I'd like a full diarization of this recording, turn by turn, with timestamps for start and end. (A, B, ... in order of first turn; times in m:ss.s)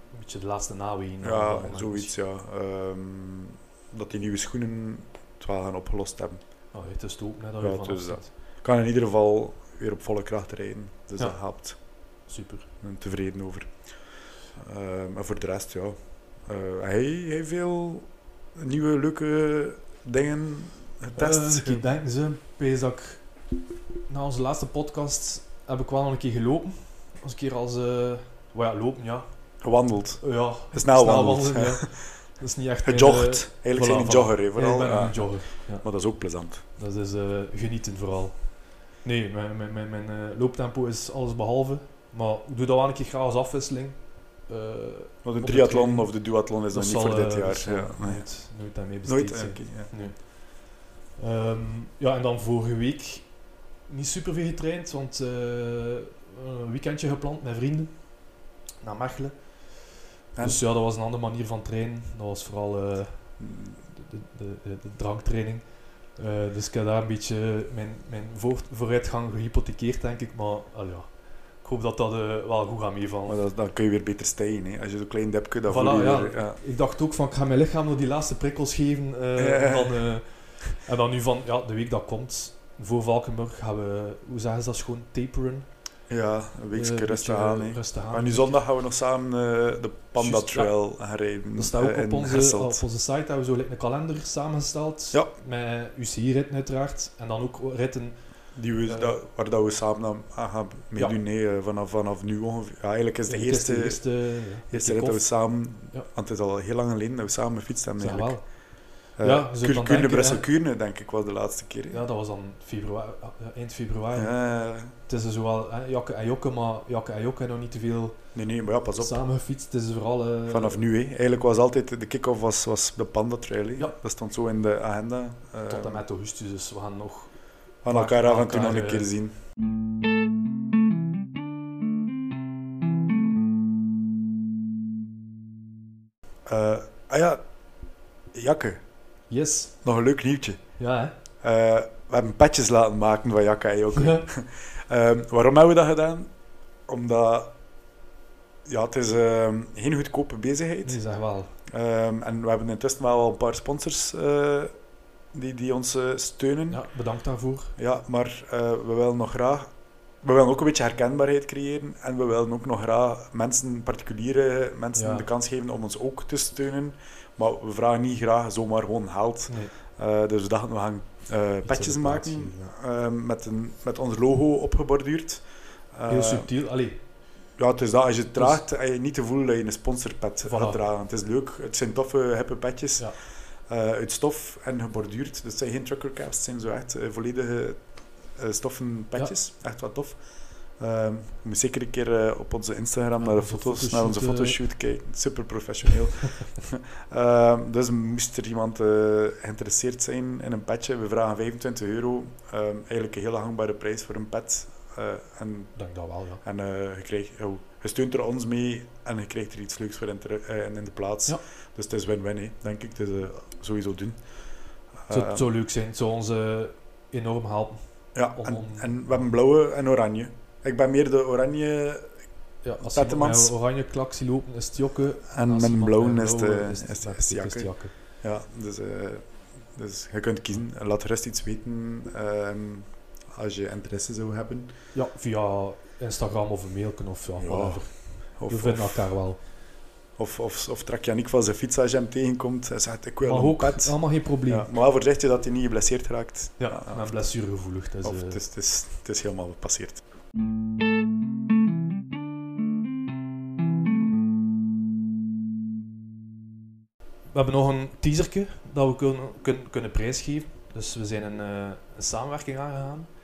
0:00.1-0:02.1 A
0:01.2-0:06.4 B
0:06.7-0:08.3 A
0:07.6-0:11.8 B
0:12.2-0:12.7 A
0:12.8-0:14.0 B
0:14.5-0:21.9 B
0:21.2-0:23.5 A
0:24.1-0:36.1 A
0:29.6-0:32.2 B
0:32.8-0:36.6 B
0:36.7-1:13.4 A
0:45.2-0:50.0 B
1:00.3-1:00.6 B
1:03.4-1:03.8 B
1:13.3-1:16.6 B
1:15.7-1:25.7 A
1:19.4-1:20.1 B
1:26.1-1:32.8 B
1:26.7-1:28.6 A
1:30.2-1:30.8 A
1:31.5-1:38.2 A
1:38.5-1:48.5 B
1:38.8-1:39.2 A
1:43.3-1:46.1 A
1:48.0-1:50.4 A
1:49.2-1:52.0 B
1:51.9-1:54.4 A
1:54.1-1:54.9 B
1:54.9-1:58.3 A
1:58.3-1:59.2 B
1:58.9-2:00.8 A
2:00.5-2:06.0 B
2:05.6-2:09.1 A
2:07.8-2:09.3 B
2:16.4-2:17.4 B
2:18.3-2:18.8 B
2:19.3-2:19.8 A
2:19.8-2:20.8 B
2:20.8-2:21.1 A
2:21.4-2:26.3 B
2:24.0-2:24.2 A
2:26.8-2:27.5 B
2:28.7-2:31.0 B
2:30.8-2:31.5 A
2:31.7-2:34.7 B
2:35.3-2:36.9 B
2:36.7-2:37.7 A
2:37.8-2:39.7 B
2:40.2-2:56.5 B
2:44.9-2:45.2 A
2:49.5-2:49.7 A
2:51.6-2:52.7 A
2:56.1-2:57.0 A
2:57.6-3:03.1 B
2:58.3-2:58.6 A
3:00.4-3:00.8 A
3:03.7-3:10.2 B
3:10.8-3:25.9 B
3:13.2-3:14.6 A
3:25.7-3:26.4 A
3:26.4-3:34.2 B
3:35.0-3:35.4 B
3:35.1-3:39.3 A
3:38.1-3:42.2 B
3:42.6-3:47.9 A
3:42.8-3:43.5 B
3:45.3-3:54.7 B
3:54.9-3:59.4 A
3:57.4-3:59.2 B
4:00.2-4:07.3 B
4:03.2-4:04.7 A
4:06.6-4:08.4 A
4:08.0-4:10.0 B
4:17.3-4:23.1 A